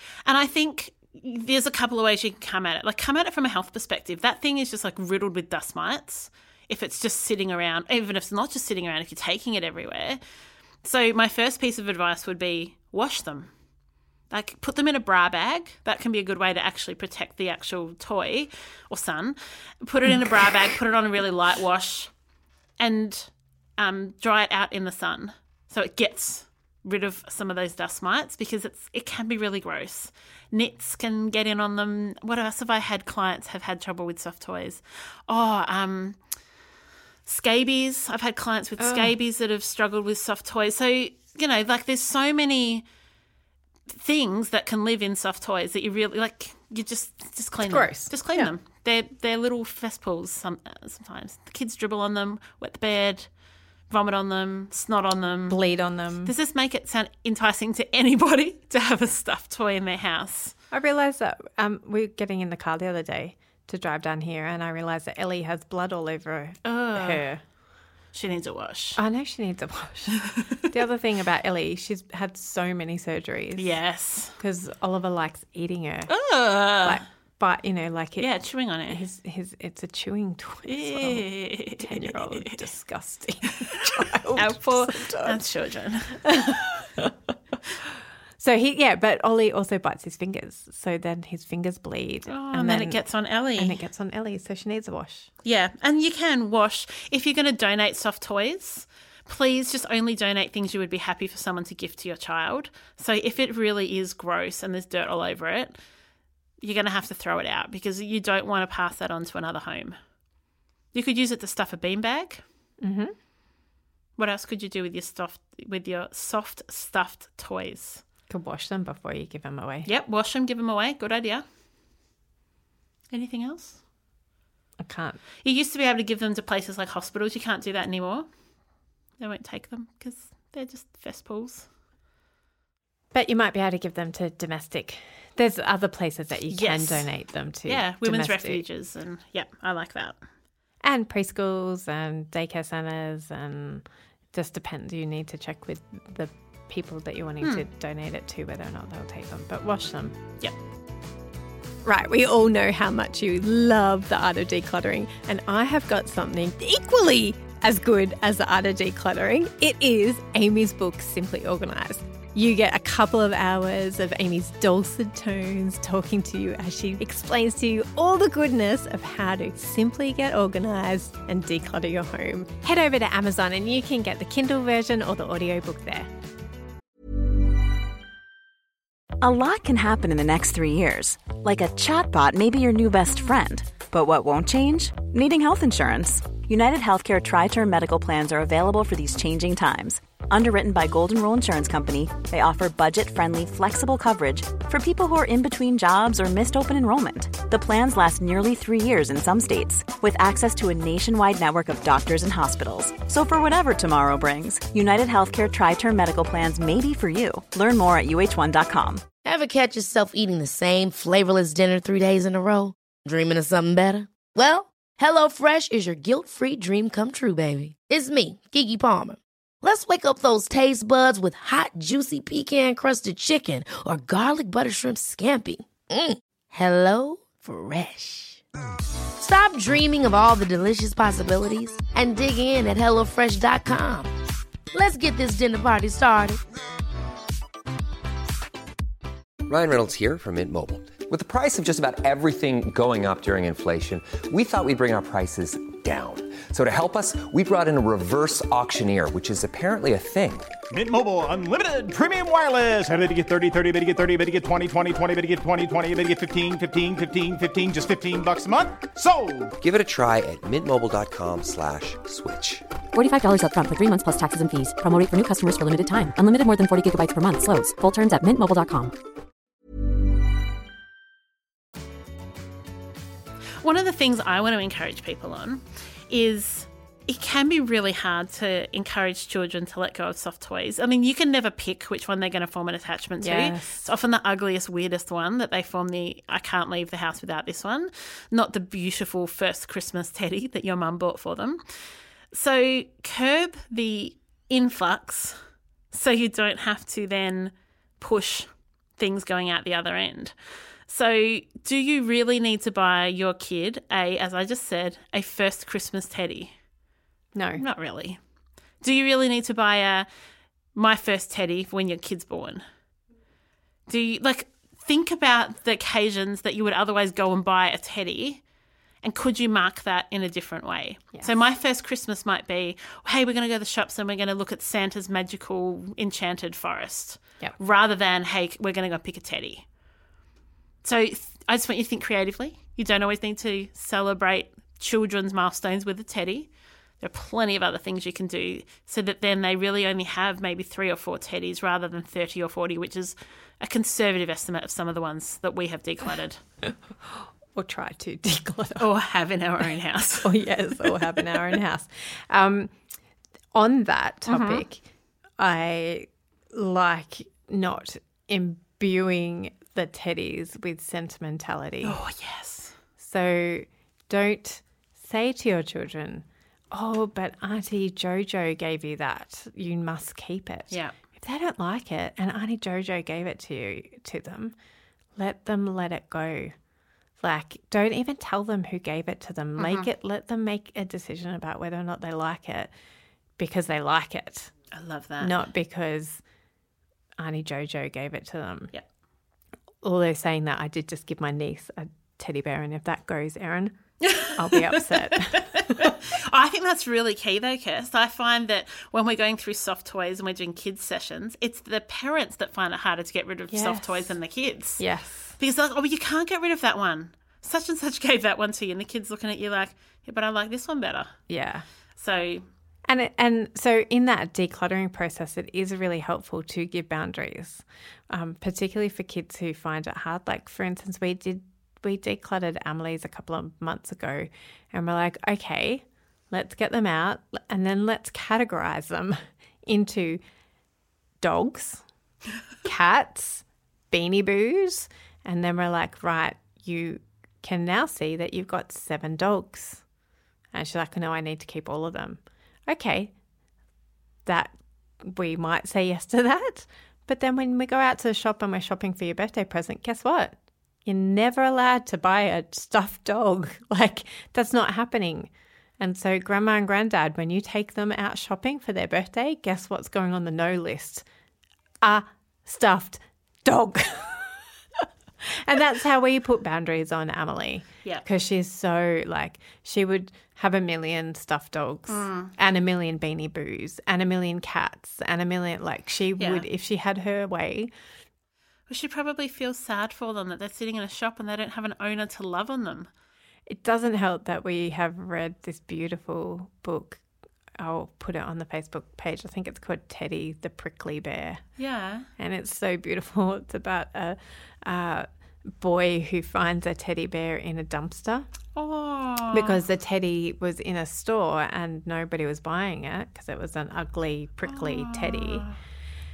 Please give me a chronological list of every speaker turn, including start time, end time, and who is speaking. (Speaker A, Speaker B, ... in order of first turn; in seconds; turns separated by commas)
Speaker A: 0.2-10.2, Speaker A: 10.8-13.5, Speaker A: 14.3-22.1, Speaker A: 22.8-36.2, Speaker A: 37.2-42.9, Speaker B: 38.8-39.1, Speaker A: 43.9-53.3, Speaker B: 47.6-48.5, Speaker A: 53.9-55.6, Speaker B: 55.5-56.3, Speaker A: 56.2-60.5, Speaker B: 60.7-67.4, Speaker A: 66.6-67.2, Speaker A: 68.1-69.0, Speaker B: 69.0-73.8, Speaker A: 70.2-70.5, Speaker A: 73.6-74.4, Speaker B: 74.4-76.1, Speaker A: 76.1-77.0, Speaker B: 76.8-78.3, Speaker A: 78.2-79.0, Speaker B: 78.9-85.4, Speaker A: 80.7-82.6, Speaker A: 83.8-86.3, Speaker B: 86.2-87.1, Speaker B: 88.4-93.0, Speaker A: 92.3-93.8, Speaker B: 93.5-95.3, Speaker A: 95.5-105.8, Speaker A: 106.6-110.0, Speaker A: 110.9-112.4, Speaker B: 112.8-113.1, Speaker A: 114.2-118.0, Speaker B: 118.3-119.9, Speaker A: 119.9-121.5, Speaker A: 123.1-123.8, Speaker B: 124.8-125.2, Speaker A: 125.4-128.3, Speaker A: 129.2-131.7, Speaker B: 133.1-138.6, Speaker A: 136.5-137.1, Speaker A: 137.6-140.2, Speaker B: 140.8-150.2, Speaker B: 151.8-176.1, Speaker C: 179.2-209.0, Speaker D: 209.2-228.4, Speaker D: 229.2-234.1, Speaker D: 234.7-236.4, Speaker E: 239.5-250.5, Speaker F: 250.7-259.5, Speaker E: 259.6-262.6, Speaker G: 262.9-268.9, Speaker A: 273.6-300.4, Speaker B: 283.2-283.9, Speaker A: 300.9-306.6, Speaker B: 307.4-307.6, Speaker A: 307.6-308.2, Speaker A: 308.8-310.1, Speaker A: 310.7-312.6, Speaker A: 313.9-318.4, Speaker A: 319.0-329.7, Speaker A: 330.8-346.4, Speaker B: 346.6-348.9, Speaker A: 348.8-351.3, Speaker B: 350.2-352.7, Speaker B: 353.5-354.8, Speaker A: 354.3-354.6, Speaker B: 355.4-362.0, Speaker A: 361.8-362.8, Speaker B: 363.0-374.6, Speaker B: 375.1-376.6, Speaker B: 377.2-382.7, Speaker A: 379.6-379.9, Speaker B: 383.4-384.5, Speaker A: 384.7-385.4, Speaker B: 385.2-386.2, Speaker B: 387.2-388.7, Speaker B: 389.8-396.0, Speaker A: 394.0-404.9, Speaker B: 403.5-404.2, Speaker B: 404.8-405.3, Speaker A: 405.4-411.2, Speaker B: 411.3-411.6, Speaker A: 412.0-412.4, Speaker B: 412.9-430.2, Speaker B: 431.2-431.8, Speaker B: 432.6-439.8, Speaker B: 440.5-443.1, Speaker B: 444.2-461.1, Speaker B: 461.8-464.4, Speaker B: 465.2-477.7, Speaker A: 471.9-472.3, Speaker A: 476.2-476.5, Speaker A: 478.7-482.9, Speaker B: 483.5-487.0, Speaker B: 487.6-491.4, Speaker A: 491.6-492.1, Speaker B: 492.2-498.3, Speaker A: 498.6-499.6, Speaker B: 499.3-505.5, Speaker A: 504.5-505.6